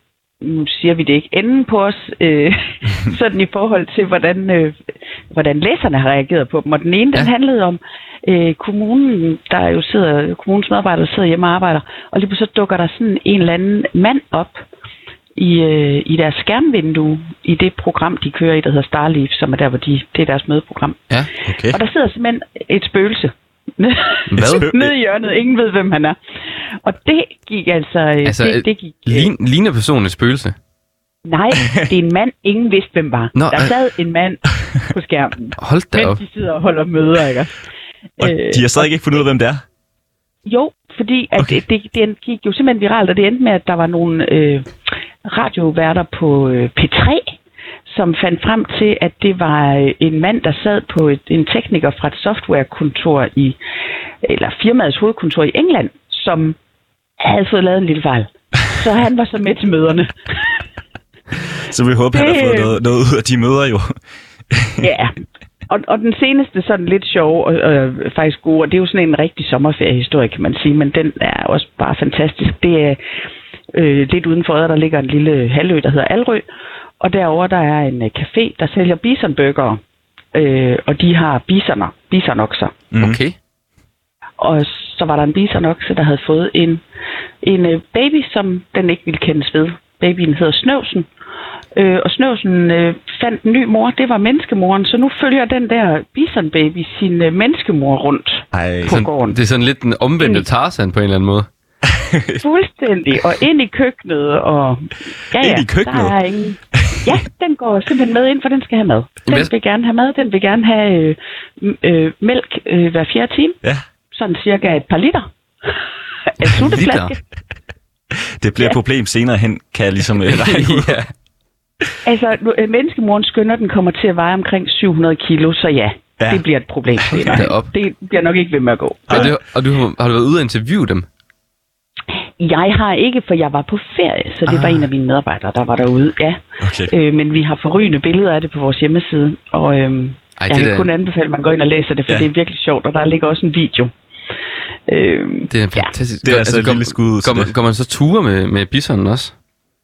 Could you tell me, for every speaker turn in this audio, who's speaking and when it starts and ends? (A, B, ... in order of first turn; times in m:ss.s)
0:00.4-0:04.8 A
0:05.3-0:14.6 A
0:15.4-0:21.0 A
0:21.5-0:21.8 B
0:21.7-0:26.2 A
0:24.3-0:24.7 C
0:24.4-0:24.9 B
0:26.8-0:29.3 A
0:28.2-0:30.6 C
0:31.2-0:34.4 A
0:33.4-0:33.7 C
0:34.9-0:37.5 A
0:35.6-0:36.2 C
0:38.2-0:38.9 A
0:38.2-0:39.6 B
0:40.4-0:44.7 A
0:45.2-0:47.4 A
0:47.9-0:53.6 A
0:54.2-0:56.6 A
0:57.2-1:00.1 A
1:01.7-1:04.0 B
1:02.1-1:02.8 A
1:04.5-1:04.8 B
1:04.8-1:05.2 A
1:05.7-1:13.0 A
1:13.7-1:16.5 A
1:17.0-1:19.8 A
1:20.3-1:22.8 A
1:22.9-1:23.2 B
1:23.0-1:23.4 C
1:24.4-1:26.8 A
1:27.4-1:31.1 A
1:31.8-1:39.4 A
1:38.5-1:39.0 B
1:38.9-1:41.5 C
1:40.2-1:40.5 A
1:42.0-1:42.4 B
1:42.4-1:53.6 A
1:45.4-1:46.1 B
1:54.1-1:55.3 A
1:56.4-1:57.2 A
1:56.5-1:57.1 C
1:58.4-2:01.0 B
2:00.3-2:01.1 C
2:02.0-2:09.3 A
2:06.2-2:06.4 B
2:07.0-2:07.4 B
2:07.3-2:07.7 C
2:09.1-2:09.3 B
2:09.1-2:11.1 C
2:12.4-2:23.9 A
2:14.5-2:14.9 C
2:16.6-2:16.9 B
2:20.4-2:20.9 C
2:24.9-2:25.9 A
2:25.5-2:29.3 C
2:26.2-2:27.5 B